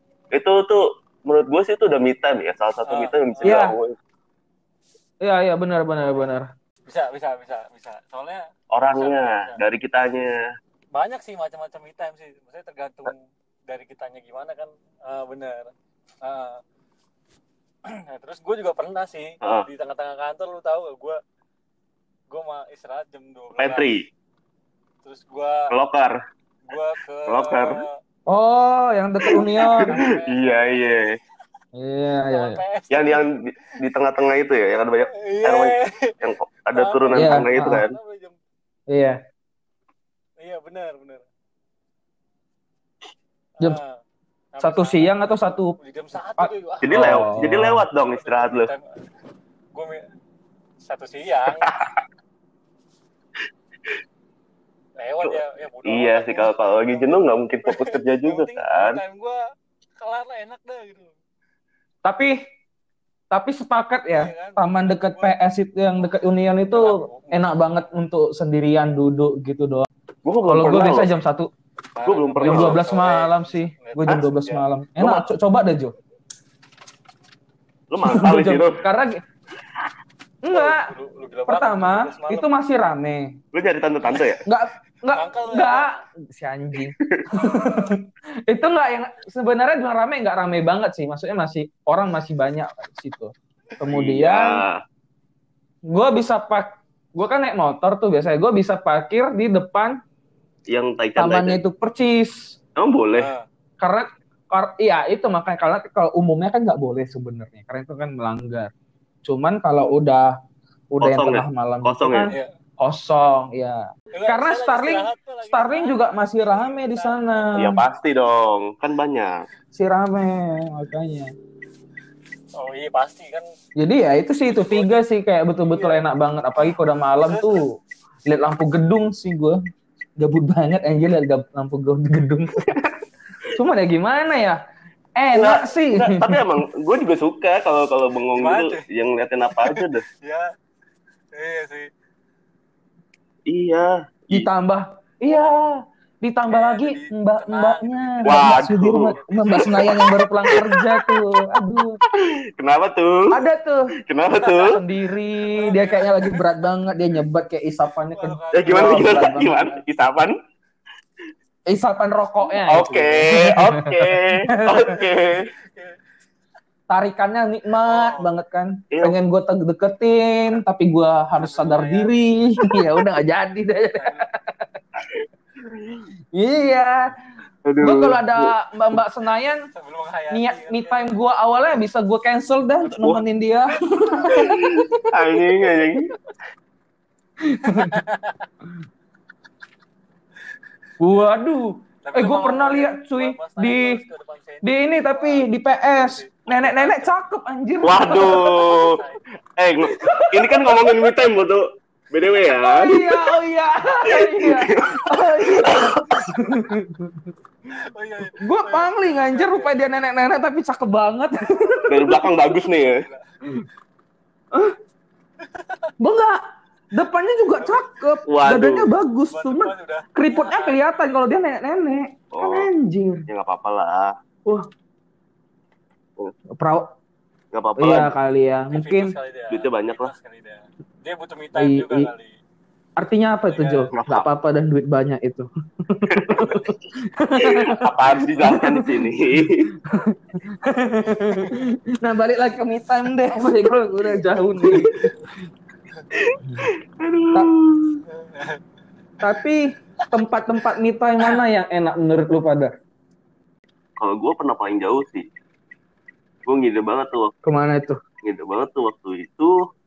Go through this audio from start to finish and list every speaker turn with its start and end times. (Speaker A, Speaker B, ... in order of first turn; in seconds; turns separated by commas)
Speaker A: 0.3-4.0, Speaker B: 2.9-3.6, Speaker C: 3.4-3.8, Speaker C: 5.2-6.5, Speaker B: 6.9-8.4, Speaker A: 8.7-10.3, Speaker B: 8.9-9.6, Speaker B: 10.9-15.7, Speaker B: 16.2-16.6, Speaker B: 18.1-21.2, Speaker B: 22.3-23.9, Speaker A: 23.6-24.1, Speaker B: 25.0-25.7, Speaker A: 25.7-26.2, Speaker B: 26.7-27.9, Speaker A: 27.3-27.8, Speaker C: 28.3-29.9, Speaker A: 29.3-31.2, Speaker B: 29.6-31.2, Speaker C: 31.8-32.6, Speaker B: 32.3-33.3, Speaker A: 32.9-38.0, Speaker B: 35.2-36.1, Speaker B: 36.7-38.4, Speaker C: 37.2-37.8, Speaker C: 38.9-39.2, Speaker B: 40.4-41.2, Speaker B: 43.6-44.0, Speaker B: 44.5-45.3, Speaker C: 44.6-45.8, Speaker B: 45.8-47.4, Speaker C: 46.4-47.8, Speaker A: 46.8-48.7, Speaker B: 48.1-48.9, Speaker B: 49.7-50.0, Speaker B: 50.8-51.7, Speaker A: 51.6-51.9, Speaker B: 55.0-59.4, Speaker A: 55.2-59.0, Speaker B: 60.0-61.1, Speaker C: 62.0-62.4, Speaker C: 63.3-69.9, Speaker B: 64.1-65.3, Speaker B: 66.7-67.5, Speaker A: 70.2-71.1, Speaker C: 70.5-71.5, Speaker B: 72.0-74.6, Speaker A: 72.0-72.8, Speaker C: 72.4-75.9, Speaker A: 75.0-75.3, Speaker A: 77.9-78.8, Speaker C: 78.0-79.2, Speaker C: 80.4-80.9, Speaker B: 80.5-82.5, Speaker C: 81.5-83.4, Speaker A: 83.5-84.4, Speaker C: 84.5-94.6, Speaker B: 85.1-85.9, Speaker A: 93.9-94.8, Speaker C: 95.9-100.0, Speaker A: 100.7-101.6, Speaker C: 101.2-102.6, Speaker A: 102.8-103.3, Speaker B: 103.2-103.5, Speaker C: 103.8-108.7, Speaker C: 109.2-110.3, Speaker C: 110.9-117.8, Speaker A: 111.0-112.3, Speaker B: 114.1-117.7, Speaker A: 117.6-119.4, Speaker C: 119.7-121.3, Speaker B: 122.6-123.5, Speaker C: 123.8-127.7, Speaker B: 124.5-124.9, Speaker B: 125.6-126.0, Speaker B: 127.2-127.6, Speaker C: 128.3-129.6, Speaker C: 130.2-132.8, Speaker C: 133.5-134.6, Speaker C: 135.2-136.3, Speaker A: 135.3-140.1, Speaker B: 138.4-138.8, Speaker B: 139.6-140.5, Speaker B: 141.3-141.9, Speaker A: 143.5-144.5, Speaker C: 144.3-152.0, Speaker B: 146.5-150.0, Speaker A: 148.2-151.2, Speaker A: 152.2-153.3, Speaker C: 153.3-153.9, Speaker A: 154.1-154.8, Speaker B: 154.4-154.7, Speaker C: 154.5-159.7, Speaker B: 155.4-156.4, Speaker B: 158.1-159.3, Speaker A: 158.5-160.4, Speaker C: 161.7-163.9, Speaker A: 162.5-165.5, Speaker C: 164.4-164.9, Speaker B: 165.3-166.0, Speaker C: 166.9-174.6, Speaker B: 167.8-168.3, Speaker A: 168.9-169.2, Speaker B: 171.4-172.3, Speaker A: 175.0-176.0, Speaker C: 176.3-177.1, Speaker A: 177.7-178.5, Speaker C: 177.8-179.6, Speaker B: 179.8-181.1, Speaker C: 180.3-185.0, Speaker A: 182.8-183.2, Speaker A: 184.3-186.1, Speaker C: 187.4-188.0, Speaker B: 187.7-188.5, Speaker C: 191.0-194.0, Speaker B: 192.0-197.1, Speaker C: 194.6-198.7, Speaker A: 197.8-199.0, Speaker B: 198.1-199.2, Speaker A: 199.6-203.3, Speaker C: 199.8-200.5, Speaker C: 202.6-207.3, Speaker A: 204.1-206.4, Speaker B: 207.9-209.8, Speaker C: 208.3-212.2, Speaker A: 211.9-213.0, Speaker B: 212.8-213.2, Speaker B: 215.6-215.9, Speaker C: 216.0-216.4, Speaker C: 216.9-223.3, Speaker B: 217.6-217.9, Speaker A: 218.3-218.9, Speaker B: 219.3-221.2, Speaker A: 222.3-222.7, Speaker A: 223.3-224.1, Speaker C: 226.6-226.9, Speaker A: 227.5-228.1, Speaker C: 227.8-229.1, Speaker B: 228.7-232.3, Speaker A: 229.5-230.1, Speaker C: 231.6-232.1, Speaker C: 233.0-239.1, Speaker B: 233.5-233.9, Speaker A: 233.9-234.3, Speaker A: 236.1-236.8, Speaker A: 237.4-239.7, Speaker C: 239.8-245.1, Speaker B: 241.4-241.6, Speaker A: 244.6-245.1, Speaker A: 246.1-248.0, Speaker B: 248.2-248.6, Speaker C: 249.2-252.7, Speaker A: 254.0-255.3, Speaker A: 256.5-257.3, Speaker C: 257.4-258.0, Speaker A: 258.2-259.5